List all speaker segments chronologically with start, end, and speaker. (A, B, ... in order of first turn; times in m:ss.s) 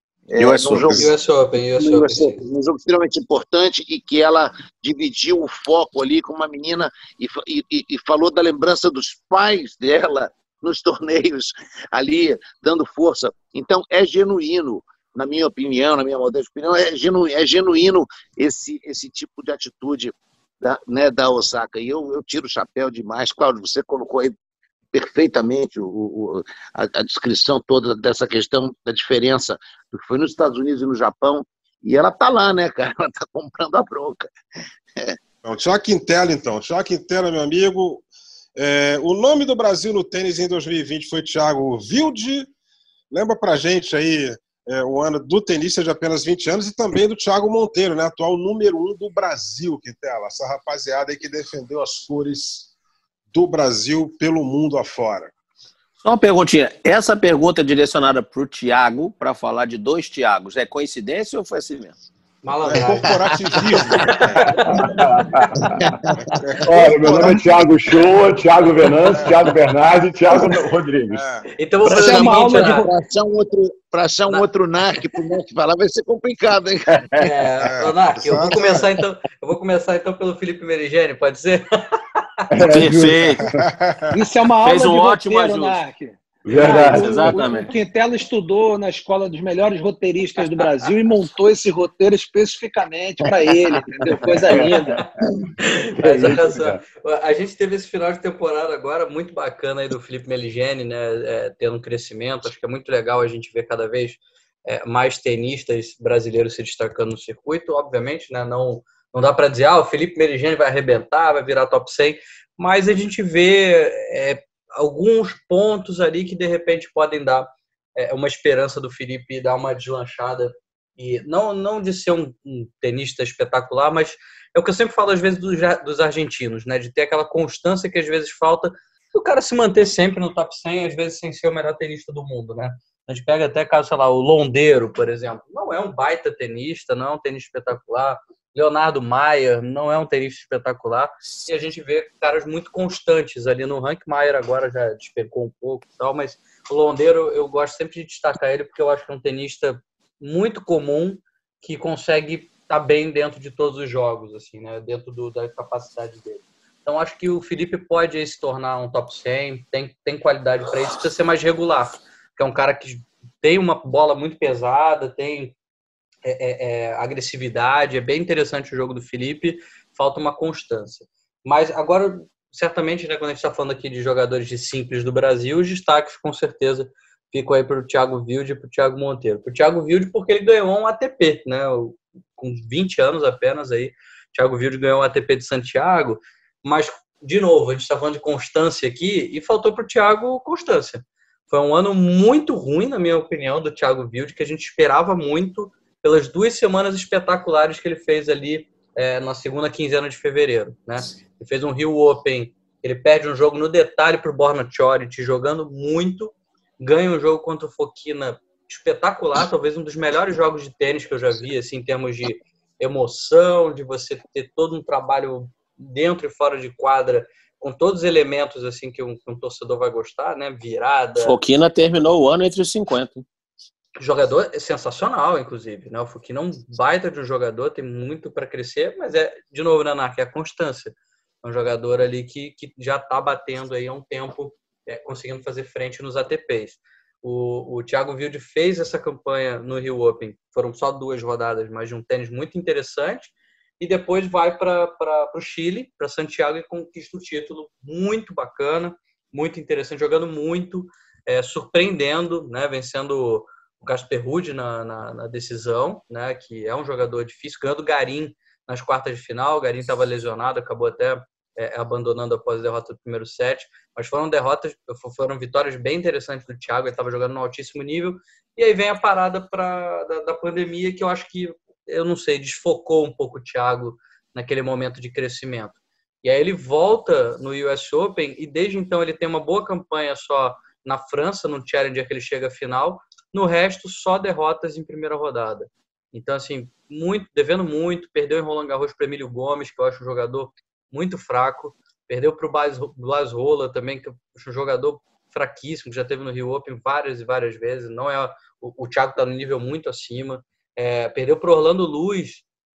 0:00.3-0:01.1 A
0:00.4-0:01.1 B
0:00.8-0:02.4 C
0:01.8-0:24.3 A
0:24.9-0:34.3 A
0:35.4-0:42.5 D
0:43.1-0:52.7 D
0:53.3-0:55.3 D
0:56.0-1:01.9 B
1:02.4-1:03.2 C
1:02.6-1:04.9 D
1:02.8-1:04.0 A
1:03.7-1:04.8 C
1:04.4-1:05.9 E
1:05.6-1:06.2 A
1:06.3-1:07.6 D
1:06.6-1:11.2 E
1:11.1-1:11.5 D
1:11.6-1:12.9 C
1:11.8-1:12.9 F
1:11.8-1:17.2 A
1:17.1-1:21.6 C
1:17.6-1:18.9 D
1:22.5-1:23.6 E
1:22.7-1:23.4 B
1:23.4-1:24.1 D
1:24.1-1:35.0 F
1:24.6-1:25.8 B
1:26.4-1:27.5 E
1:26.5-1:27.7 B
1:34.4-1:34.8 E
1:34.6-1:35.0 C
1:35.6-2:45.5 C
1:36.0-1:36.8 E
2:46.2-3:41.4 C
3:41.2-3:43.2 B
3:44.0-5:02.4 C